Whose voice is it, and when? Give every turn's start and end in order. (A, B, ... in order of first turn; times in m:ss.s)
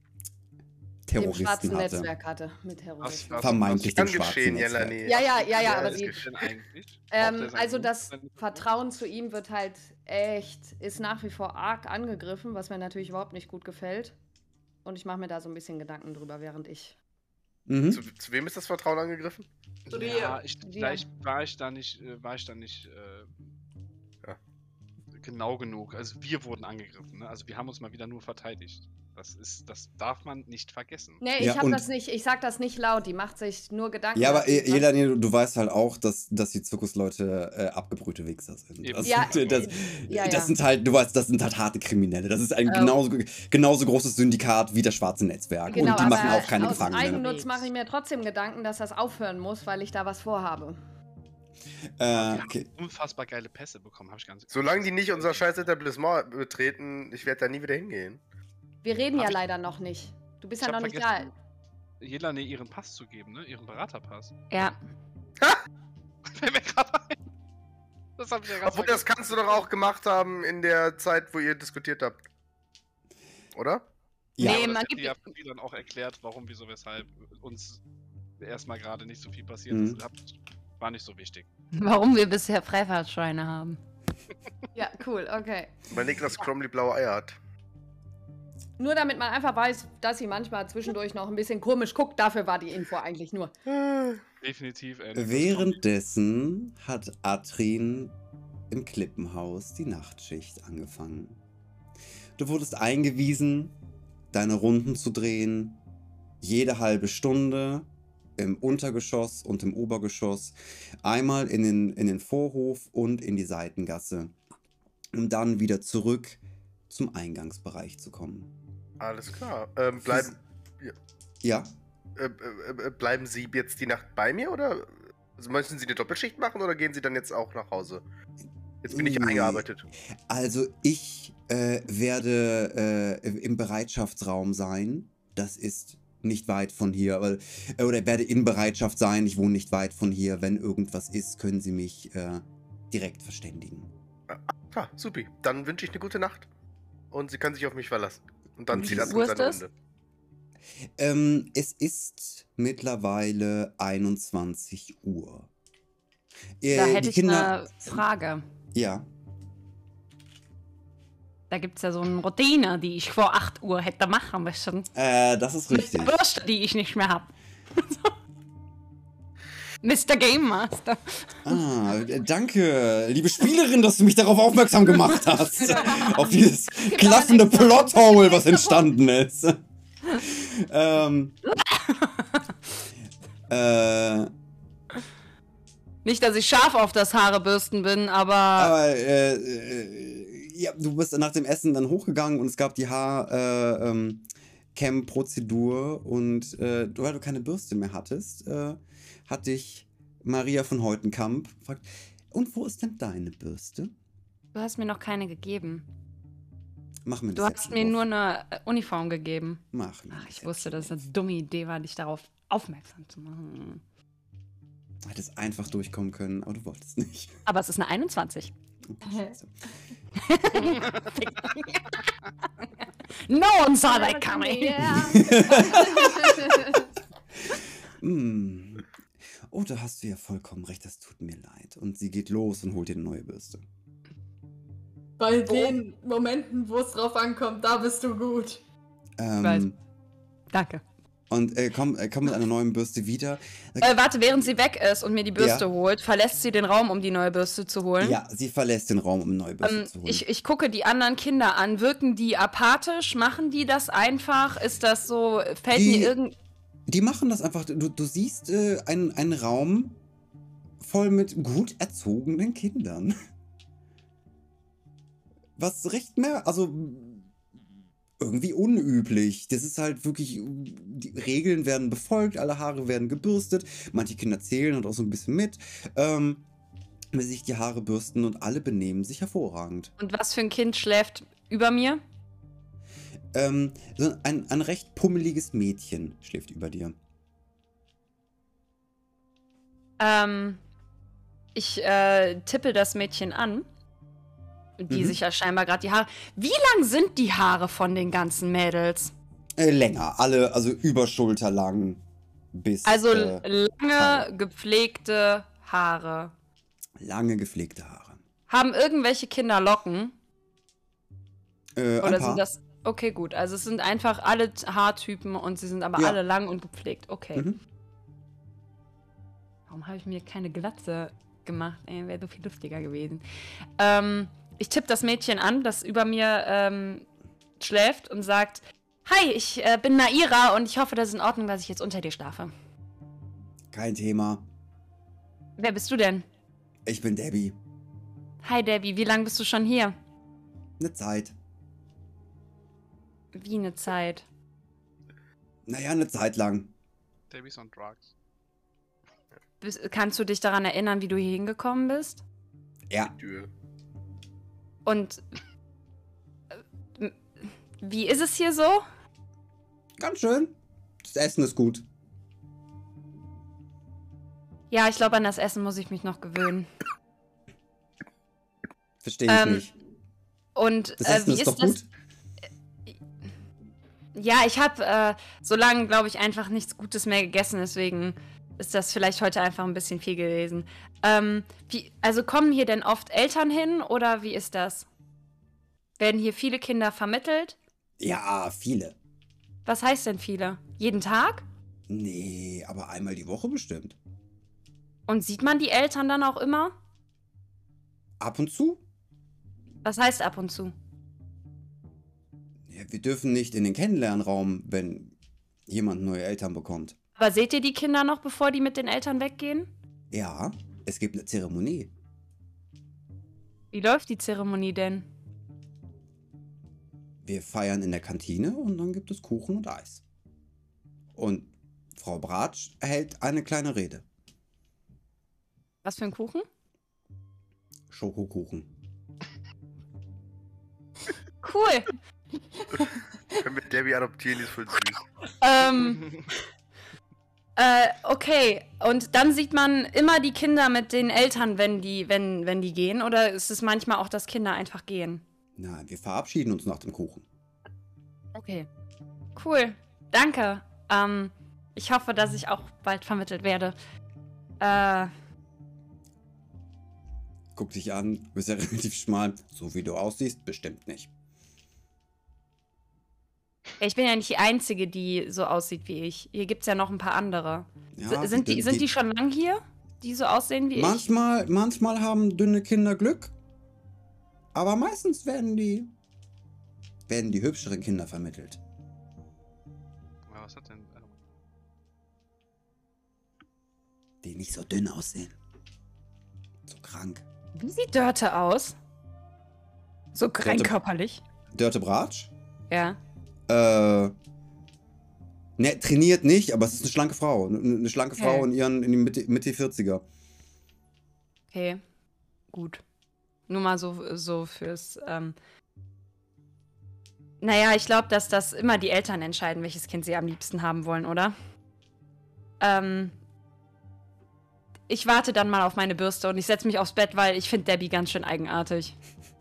0:01.1-0:02.1 A
0:01.2-0:03.8 B
0:03.0-0:04.3 C
0:03.4-0:05.0 A
0:03.9-0:06.3 D
0:05.0-0:06.2 B
0:05.5-0:08.7 C
0:07.1-0:14.2 B
0:14.8-0:17.0 B
0:17.7-0:18.0 A
0:17.9-0:19.5 D
0:19.9-0:20.4 E
0:19.9-0:23.4 C
0:20.6-0:21.0 B
0:25.2-0:31.2 C
0:31.2-0:34.9 B
0:31.4-0:31.9 A
0:34.2-0:47.2 A
0:38.8-0:39.7 C
0:39.0-0:40.5 B
0:42.7-0:43.0 B
0:45.7-0:47.7 F
0:45.7-0:50.8 B
0:52.0-0:52.7 A
0:52.1-0:55.6 C
0:54.5-0:58.2 D
0:58.8-1:01.3 B
1:00.6-1:01.3 C
1:02.0-1:04.4 C
1:04.5-1:04.8 F
1:06.3-1:07.2 C
1:08.2-1:09.7 C
1:08.6-1:12.2 D
1:13.6-1:13.8 D
1:14.4-1:15.2 F
1:14.4-1:17.8 C
1:18.4-1:21.5 C
1:19.7-1:20.0 A
1:21.8-1:23.8 F
1:24.7-1:25.9 B
1:25.9-1:27.4 D
1:28.8-1:33.5 B
1:33.7-1:34.2 D
1:34.4-1:35.8 C
1:35.2-1:38.2 A
1:38.7-1:41.4 A
1:42.4-1:43.8 A
1:44.3-1:45.8 A
1:46.4-1:54.3 A
1:55.1-1:58.5 A
1:59.0-2:01.0 D
2:00.0-2:00.4 A
2:01.4-2:01.7 A
2:02.2-2:08.0 D
2:08.8-2:09.8 D
2:08.9-2:09.6 A
2:10.3-2:23.9 A
2:24.3-2:26.5 D
2:27.1-2:29.7 D
2:28.7-2:29.2 A
2:28.7-2:29.6 F
2:31.0-2:35.5 A
2:36.6-2:37.9 A
2:36.7-2:38.4 F
2:38.7-2:39.1 A
2:41.5-2:44.9 F
2:45.0-2:46.2 A
2:45.9-2:48.1 F
2:49.8-2:51.3 F
2:51.4-2:59.6 A
2:55.9-2:56.3 B
2:56.8-2:58.8 B
3:00.2-3:01.4 A
3:01.5-3:02.4 F
3:03.5-3:04.3 A
3:06.0-3:08.8 F
3:08.6-3:23.9 A
3:24.5-3:25.8 F
3:27.1-3:28.0 A
3:27.4-3:33.8 F
3:29.7-3:31.0 A
3:35.0-3:37.4 A
3:37.5-3:38.5 F
3:38.9-3:39.5 A
3:39.0-3:39.3 E
3:40.2-3:42.1 F
3:42.8-3:45.1 F
3:43.9-3:46.9 B
3:44.8-3:46.6 A
3:47.5-3:48.9 A
3:49.5-3:53.6 A
3:55.2-3:58.6 E
3:55.5-3:55.7 F
3:59.2-3:59.8 A
3:59.4-3:59.7 F
4:00.5-4:00.8 F
4:01.3-4:04.0 A
4:03.8-4:08.2 F
4:05.4-4:05.7 A
4:08.0-4:10.2 A
4:09.6-4:16.3 F
4:15.7-4:16.1 A
4:16.9-4:20.0 A
4:20.8-4:23.1 A
4:25.6-4:27.3 A
4:28.2-4:36.4 A
4:37.1-4:39.9 A
4:40.0-4:42.0 F
4:43.3-4:47.0 A
4:50.0-4:50.6 F
4:51.6-4:53.7 F
4:54.8-4:59.1 F
4:54.9-4:55.2 A
4:59.6-5:02.0 A
5:02.5-5:04.3 A
5:02.9-5:06.3 F
5:07.0-5:08.2 A
5:08.5-5:10.1 F
5:11.8-5:12.4 A
5:12.0-5:17.5 F
5:19.7-5:23.2 F
5:23.8-5:27.1 F
5:27.6-5:32.5 F
5:33.7-5:34.4 A
5:35.6-5:36.3 F
5:36.9-5:37.6 A
5:38.4-5:40.0 F
5:40.8-5:41.3 A
5:43.3-5:44.3 F
5:45.7-5:46.7 A
5:47.3-5:48.1 C
5:49.6-5:52.2 F
5:53.2-5:53.5 D
5:54.9-5:55.2 F
5:57.8-5:58.8 F
6:00.0-6:01.8 A
6:04.7-6:06.7 F
6:09.0-6:09.7 A
6:09.3-6:09.7 F
6:10.6-6:11.8 F
6:11.0-6:11.9 A
6:14.2-6:24.9 F
6:26.0-6:27.6 F
6:28.0-6:29.0 A
6:29.7-6:31.5 F
6:31.9-6:34.0 A
6:35.1-6:36.8 F
6:38.2-6:38.8 A
6:39.8-6:40.7 F
6:42.7-6:45.2 A
6:45.7-6:47.0 A
6:47.2-6:49.7 F
6:50.1-6:51.9 A
6:53.7-6:55.1 F
6:57.2-7:00.0 A
7:01.1-7:04.0 A
7:05.8-7:06.5 F
7:07.9-7:08.7 A
7:11.4-7:11.9 F
7:13.4-7:15.0 D
7:15.4-7:16.0 F
7:17.6-7:25.2 F
7:25.6-7:27.3 A
7:28.4-7:28.7 F
7:29.4-7:33.8 F
7:34.6-7:35.1 F
7:37.6-7:41.1 A
7:43.8-7:51.0 F
7:48.0-7:48.9 A
7:50.8-7:53.3 A
7:54.5-7:55.9 A
7:57.1-7:58.6 A
8:00.3-8:01.1 C
8:04.2-8:05.4 A
8:06.7-8:07.2 A
8:07.6-8:08.8 F
8:10.1-8:11.2 F
8:10.4-8:10.8 A
8:11.5-8:12.3 A
8:12.7-8:13.0 F
8:13.5-8:14.1 A
8:15.6-8:20.0 A
8:18.2-8:18.5 F
8:21.5-8:21.8 F
8:22.5-8:22.8 F
8:23.5-8:25.4 F
8:27.4-8:31.3 F
8:32.6-8:33.2 F
8:34.9-8:39.0 F